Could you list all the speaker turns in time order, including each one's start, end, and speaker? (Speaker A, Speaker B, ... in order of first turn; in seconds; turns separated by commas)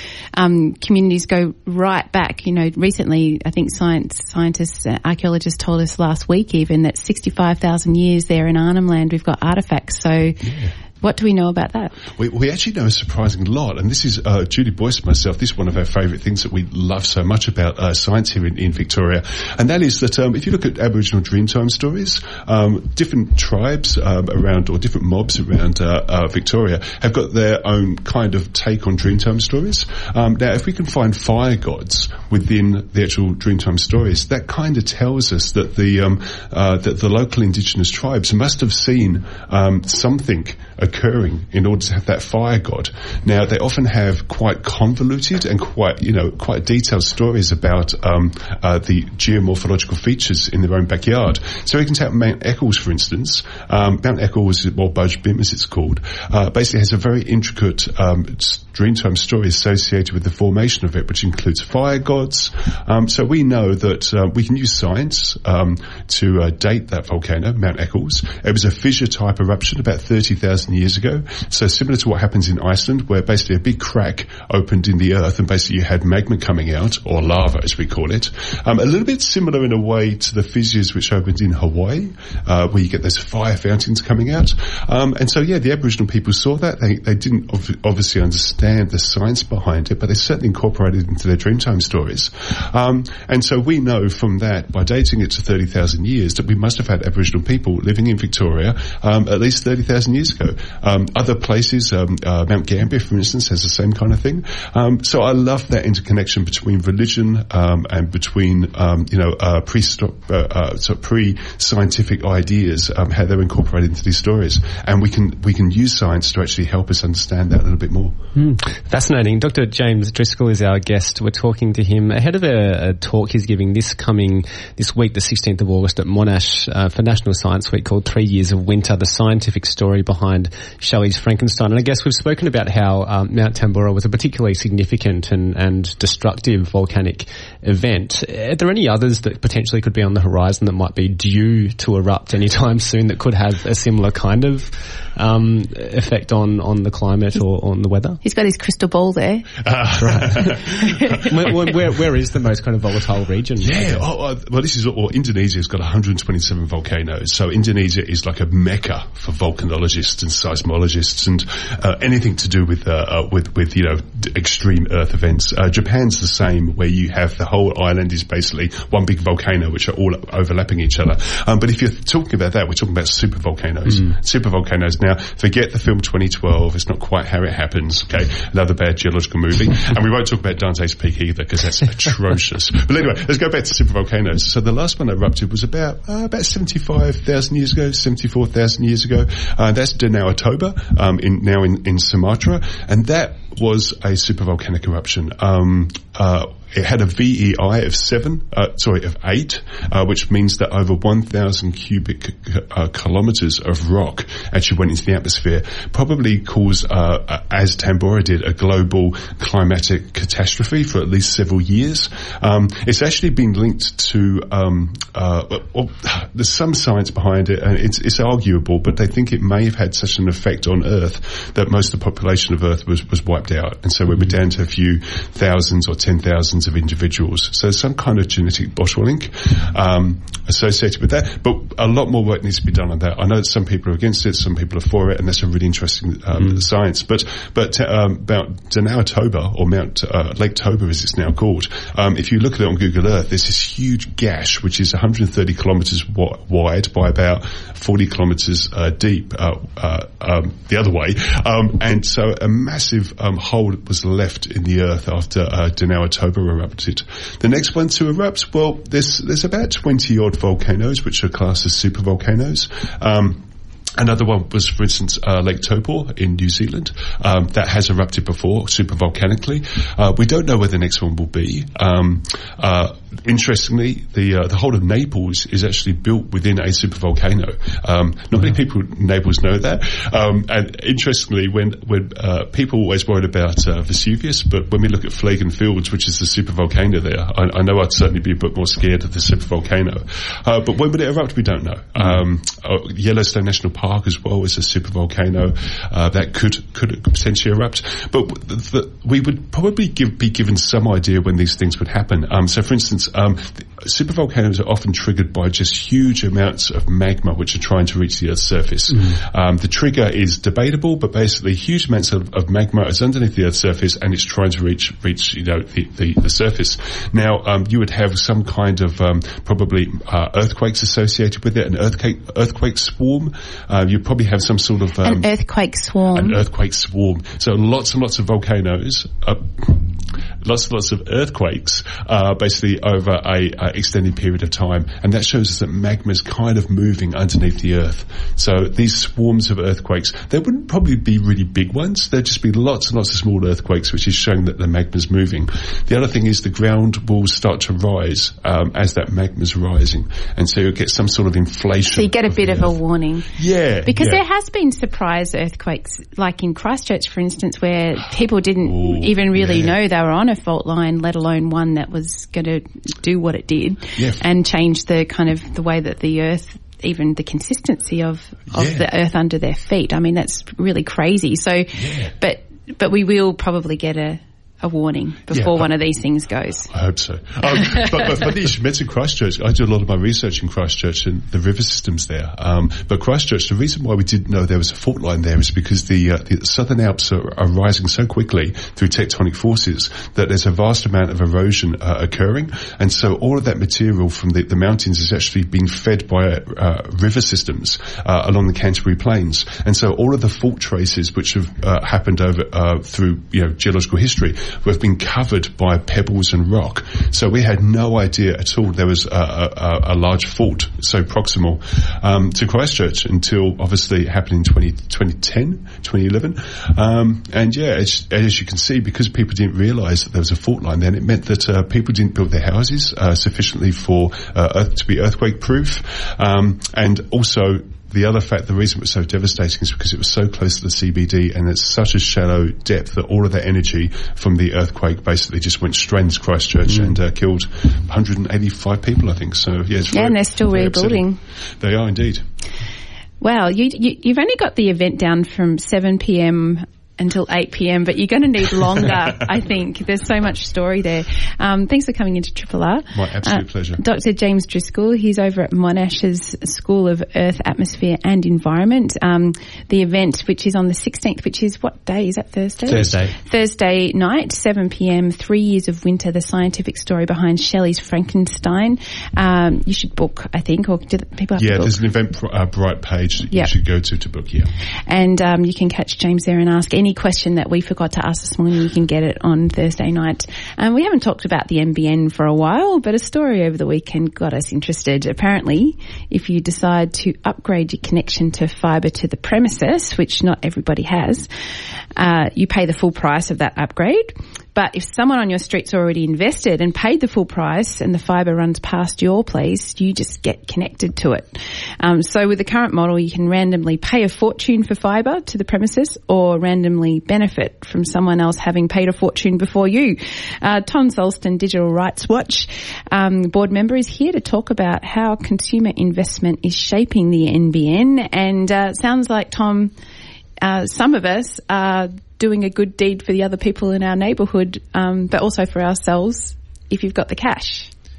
Speaker A: 0.3-10.4, Speaker B: 10.4-10.7, Speaker A: 11.0-11.9, Speaker B: 12.2-118.2, Speaker C: 118.3-148.2, Speaker A: 148.2-149.5, Speaker B: 149.6-151.7, Speaker C: 150.0-150.5, Speaker C: 151.1-154.0, Speaker B: 153.6-263.4, Speaker B: 264.0-325.3, Speaker A: 325.0-326.4, Speaker B: 326.1-352.7, Speaker A: 351.9-353.3, Speaker B: 353.3-354.2, Speaker A: 353.8-376.7, Speaker B: 358.7-359.7, Speaker B: 364.0-364.2, Speaker B: 368.5-368.9, Speaker B: 371.7-372.1, Speaker B: 375.3-375.7, Speaker B: 376.7-441.1, Speaker A: 439.9-441.2, Speaker B: 441.6-442.2, Speaker A: 443.2-471.8, Speaker B: 452.9-453.8, Speaker B: 462.7-463.1, Speaker B: 471.4-474.5, Speaker A: 474.9-491.3, Speaker A: 491.9-519.7, Speaker A: 520.4-527.7